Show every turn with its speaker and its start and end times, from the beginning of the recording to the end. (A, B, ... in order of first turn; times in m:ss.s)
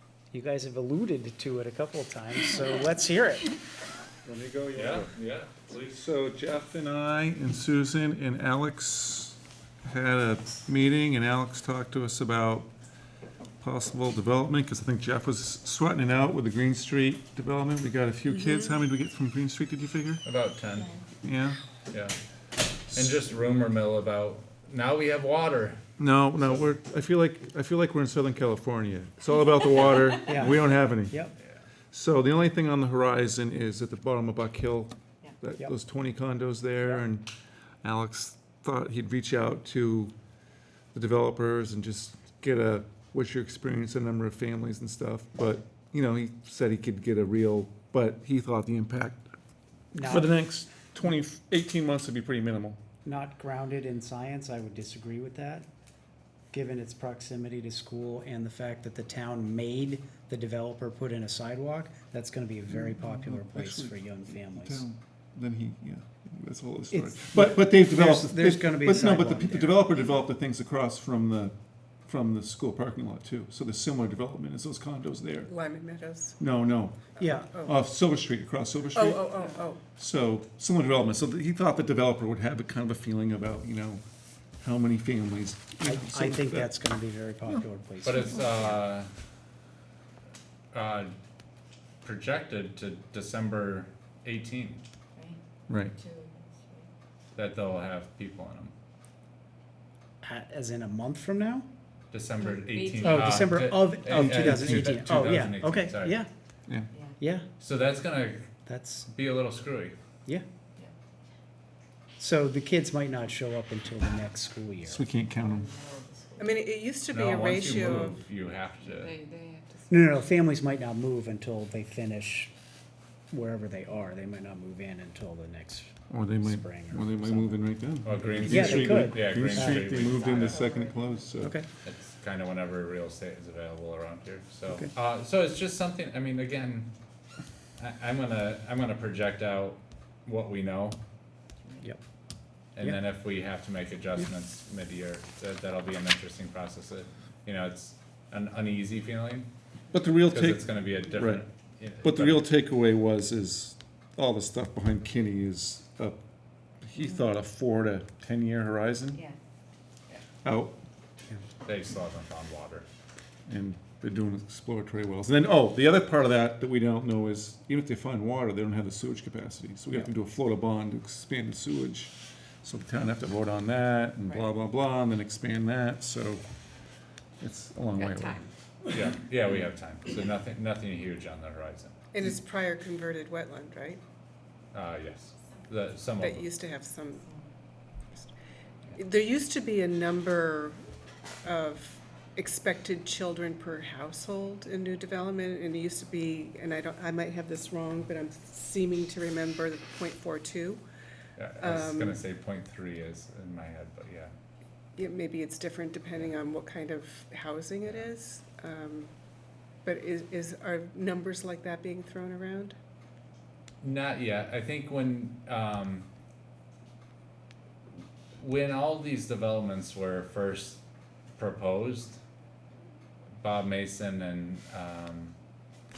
0:00.3-0:03.6 A
0:04.2-0:05.1 B
0:04.8-0:05.8 C
0:05.7-0:12.7 B
0:13.6-0:20.2 B
0:18.4-0:18.7 D
0:20.2-0:20.9 C
0:21.2-0:21.6 B
0:21.9-0:22.2 C
0:22.9-0:25.8 C
0:26.0-0:31.2 B
0:30.2-0:31.3 A
0:31.9-0:37.3 B
0:37.8-0:40.1 B
0:40.9-0:49.3 B
0:49.9-0:50.4 A
0:50.0-0:52.8 B
0:53.0-0:55.7 A
0:56.5-1:04.8 A
1:02.7-1:11.5 B
1:06.9-1:09.9 A
1:12.0-1:15.5 B
1:15.5-1:16.4 D
1:16.4-1:19.4 B
1:17.2-1:17.5 A
1:17.2-1:17.7 D
1:18.9-1:19.8 D
1:20.0-1:24.0 B
1:24.6-1:26.7 B
1:25.8-1:28.7 A
1:28.0-1:29.1 C
1:30.7-1:31.1 C
1:32.0-1:34.8 C
1:35.1-1:35.4 E
1:35.7-1:35.9 B
1:35.9-1:36.9 E
1:37.4-1:38.7 C
1:40.2-1:41.6 A
1:42.1-1:46.2 C
1:42.5-1:43.4 E
1:43.0-1:46.3 A
1:44.1-1:45.3 B
1:46.9-1:47.2 E
1:47.2-1:47.4 A
1:47.6-1:48.5 C
1:48.6-1:49.1 A
1:49.1-1:49.9 C
1:52.2-1:55.0 A
1:54.8-1:55.8 B
1:55.3-1:56.6 E
1:56.4-1:58.2 D
1:57.1-1:59.1 C
1:58.9-2:00.0 E
1:59.9-2:02.5 A
2:03.3-2:07.6 A
2:06.1-2:11.6 B
2:08.0-2:10.6 C
2:08.4-2:10.0 A
2:10.1-2:11.4 E
2:11.4-2:11.6 A
2:11.8-2:16.9 C
2:17.8-2:21.0 C
2:22.8-2:29.5 C
2:29.9-2:31.4 B
2:30.2-2:32.5 C
2:32.0-2:36.2 B
2:36.8-2:39.2 B
2:39.1-2:39.4 E
2:40.4-2:40.8 B
2:41.6-2:42.8 C
2:43.5-2:56.4 B
2:57.4-2:58.4 B
2:57.9-2:58.5 E
2:58.9-3:01.9 C
3:02.1-3:04.0 D
3:04.7-3:06.5 C
3:06.2-3:07.3 D
3:08.9-3:10.8 D
3:11.4-3:20.8 D
3:21.4-3:24.3 C
3:21.6-3:22.2 D
3:25.0-3:29.1 D
3:29.8-3:32.7 D
3:33.8-3:36.1 C
3:38.4-3:40.8 C
3:41.4-3:42.2 C
3:43.4-3:45.3 C